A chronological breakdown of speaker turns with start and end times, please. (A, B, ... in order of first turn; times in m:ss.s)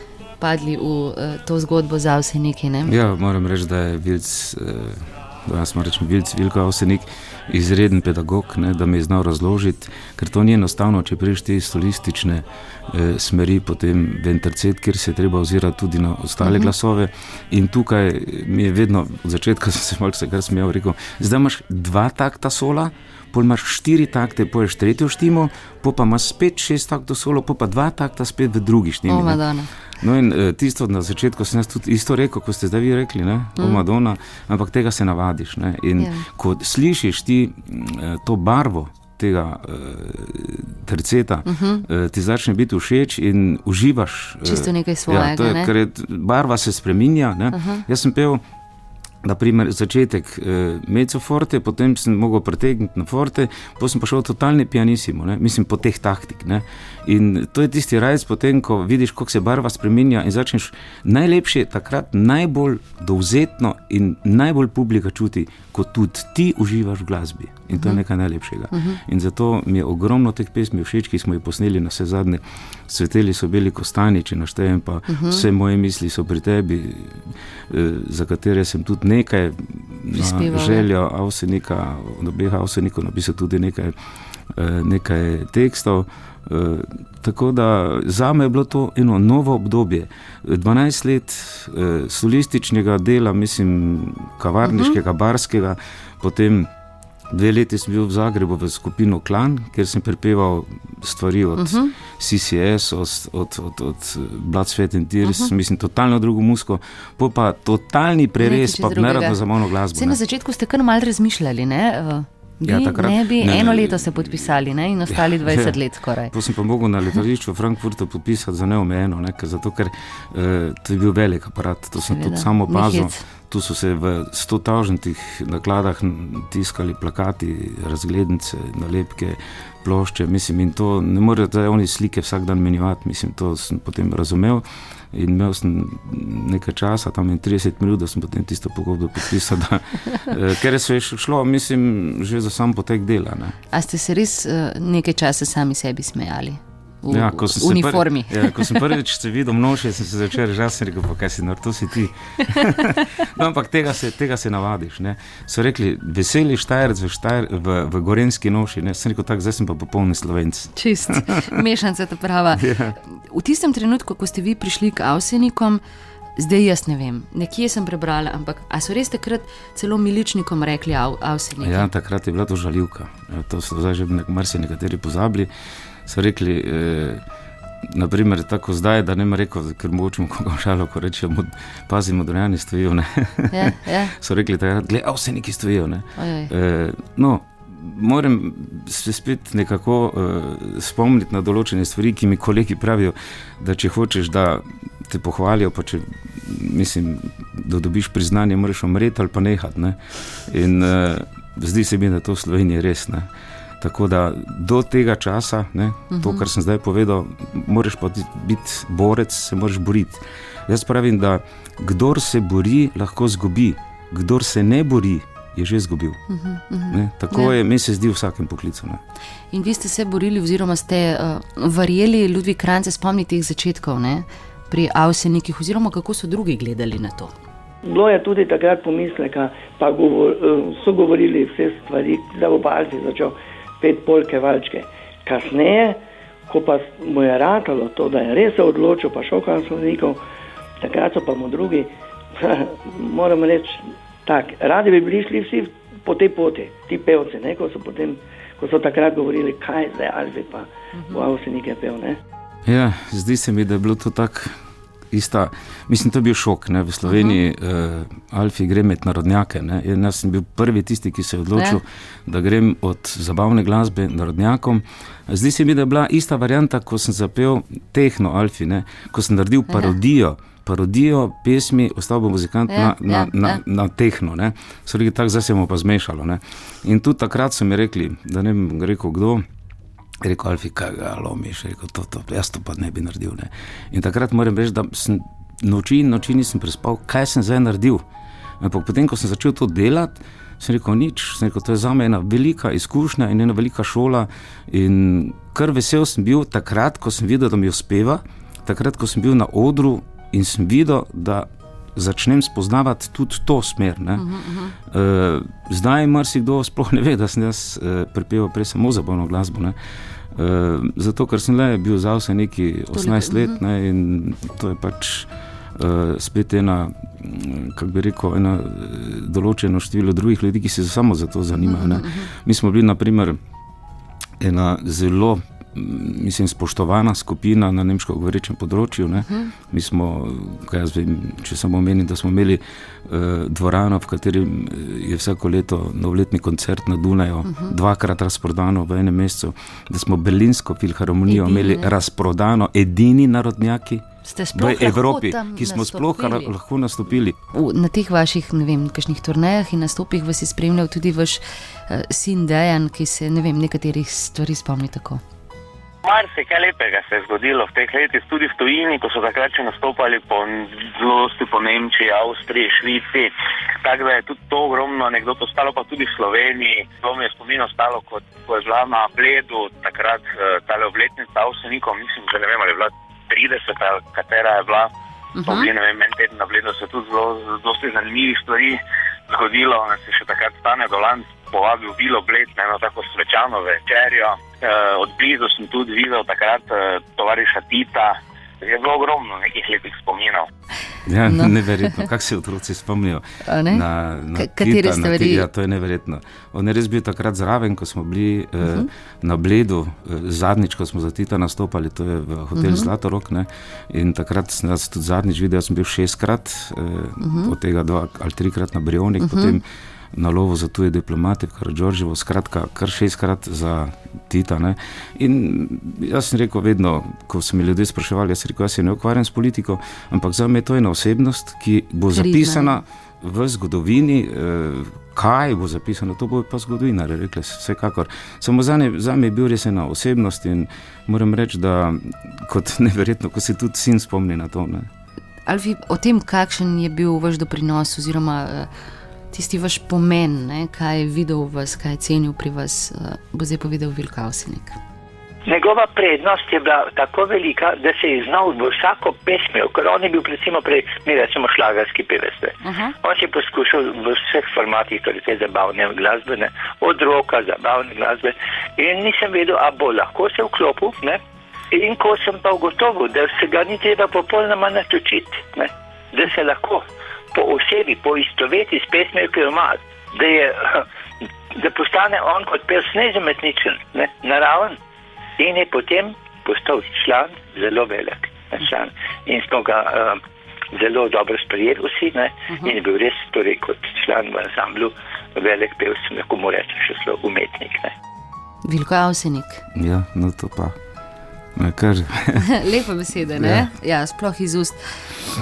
0:00.4-0:02.9 A
0:02.9-0:48.4 B
0:16.4-0:16.7 A
0:29.1-0:29.7 A
0:33.6-0:33.8 A
0:36.0-0:36.3 A
0:41.5-0:41.9 A
0:44.4-0:45.7 A
0:47.5-0:47.8 A
0:49.2-1:24.0 B
1:07.7-1:08.0 A
1:08.7-1:09.0 A
1:15.1-1:15.5 A
1:20.1-1:20.9 A
1:24.5-1:36.7 B
1:34.6-1:35.0 A
1:37.3-1:50.2 B
1:41.6-1:41.9 A
1:45.2-1:45.5 A
1:48.4-1:49.4 A
1:49.9-1:56.3 A
1:52.6-1:54.6 B
1:55.1-2:23.6 B
2:02.0-2:03.2 A
2:23.7-2:28.9 A
2:27.1-2:41.6 B
2:40.8-2:45.8 A
2:42.5-2:43.0 B
2:46.4-2:51.9 A
2:51.6-2:55.5 B
2:56.1-2:57.2 B
2:57.8-3:23.3 B
3:03.5-3:04.2 A
3:06.2-3:06.5 A
3:23.8-3:36.2 B
3:26.1-3:26.5 A
3:36.3-3:37.5 A
3:36.9-3:39.0 B
3:39.5-3:47.3 A
3:47.9-4:00.2 C
4:00.8-4:12.2 C
4:12.6-4:14.6 B
4:15.1-4:39.4 B
4:17.0-4:17.4 A
4:32.7-4:33.6 A
4:40.2-4:48.0 B
4:48.6-5:04.3 B
5:04.2-5:04.8 A
5:04.9-5:09.8 B
5:10.3-5:23.4 B
5:12.9-5:13.6 A
5:21.6-5:22.3 A
5:24.4-5:47.4 B
5:29.3-5:29.5 A
5:37.4-5:37.8 A
5:41.3-5:41.9 A
5:44.2-5:46.5 A
5:47.5-5:55.2 A
5:56.0-6:14.9 D
6:15.4-6:15.7 A
6:15.5-6:30.5 D
6:31.1-7:14.9 B
6:31.3-6:32.1 A
6:33.4-6:35.5 A
6:38.6-6:38.9 A
6:42.6-6:42.9 A
6:47.2-6:47.5 A
6:49.2-6:49.6 A
7:02.1-7:02.8 A
7:15.5-7:18.7 A
7:19.3-7:24.8 A
7:25.5-7:41.2 E
7:32.6-7:32.9 A
7:41.7-7:50.9 E
7:51.5-7:54.8 E
7:55.4-8:00.2 E
8:00.7-8:07.9 E
8:08.6-8:09.6 A
8:09.7-8:10.8 B
8:11.6-8:12.5 B
8:12.4-8:15.2 A
8:13.4-8:13.7 B